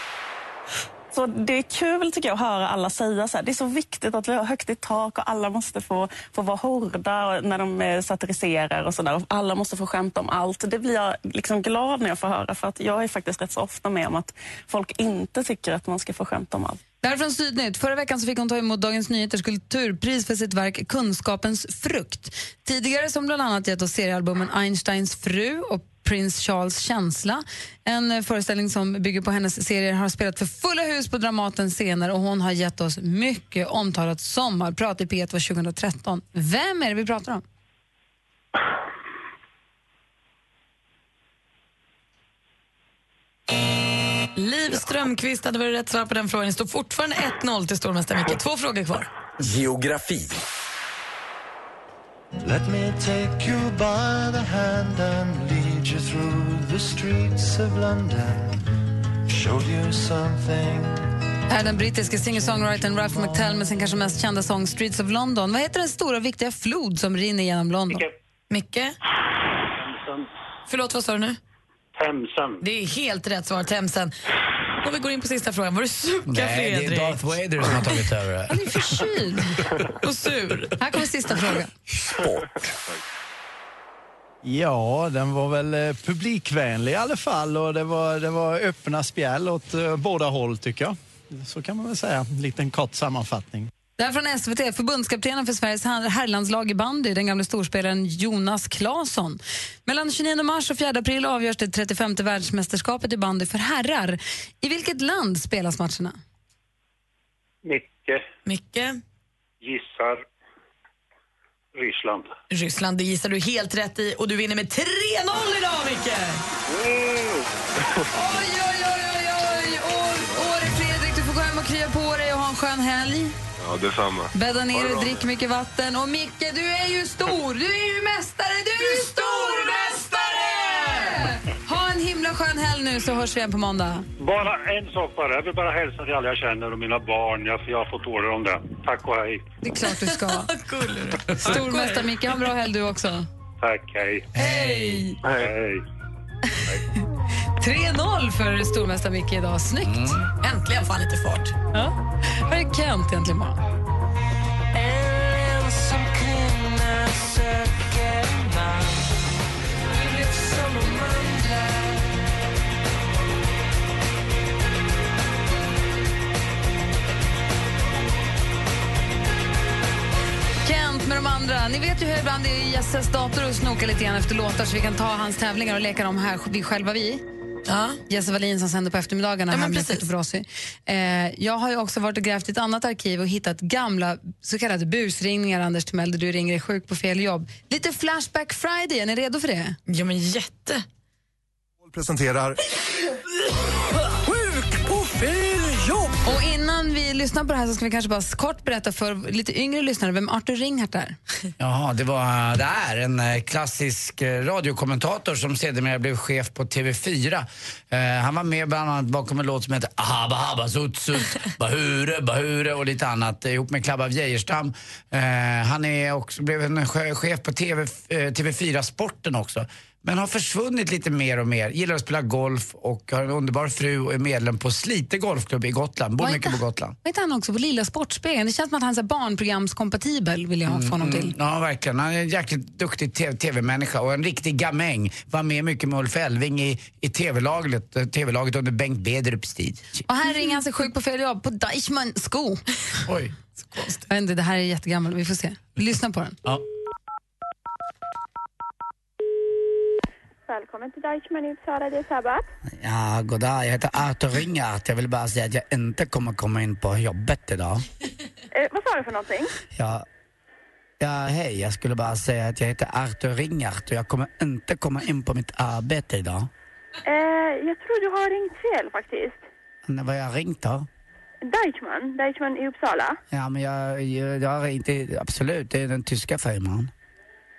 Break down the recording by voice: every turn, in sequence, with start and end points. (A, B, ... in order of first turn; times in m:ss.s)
0:01.1-0:16.8 A
0:17.0-0:37.4 B
0:44.4-0:49.1 C
0:52.5-0:58.4 D
0:59.4-1:00.9 D
1:01.5-1:08.0 B
1:02.4-1:03.3 D
1:08.5-1:09.0 C
1:09.7-1:10.3 E
1:10.7-1:11.4 C
1:11.9-1:12.6 E
1:12.6-1:14.1 C
1:14.8-1:17.3 C
1:16.3-1:18.7 F
1:18.5-1:19.6 B
1:20.0-1:20.8 C
1:20.8-1:21.7 B
1:22.2-1:23.0 G
1:24.4-1:33.7 H
1:34.0-1:46.2 B
1:47.6-1:48.2 E
1:48.4-1:49.0 C
1:49.6-1:50.2 E
1:51.7-1:52.3 E
1:52.5-1:56.4 C
1:56.7-1:57.4 E
1:58.1-2:03.4 B
2:03.6-2:05.2 G
2:04.3-2:14.0 B
2:14.2-2:19.5 E
2:19.6-2:20.5 B
2:20.0-2:22.4 C
2:21.4-2:23.3 B
2:23.6-2:24.3 E
2:24.4-2:25.2 B
2:25.2-2:25.5 G
2:25.3-2:25.8 E
2:27.6-2:30.2 B
2:29.8-2:30.2 F
2:30.4-2:31.5 C
2:31.7-2:33.6 B
2:50.6-2:57.2 B
2:57.7-2:58.0 C
2:58.1-3:09.8 B
2:59.5-3:00.1 C
3:09.9-3:10.8 C
3:16.2-3:21.2 B
3:21.6-3:47.0 F
3:46.2-3:51.3 B
3:50.6-4:00.0 F
4:00.1-4:02.6 B
4:03.1-4:03.3 F
4:04.1-4:06.4 B
4:10.5-4:12.4 I
4:12.7-4:17.8 F
4:18.5-4:19.5 I
4:19.7-4:20.0 F
4:21.0-4:26.5 F
4:27.0-4:29.4 I
4:29.8-4:30.9 F
4:31.4-4:33.2 I
4:33.3-4:36.9 F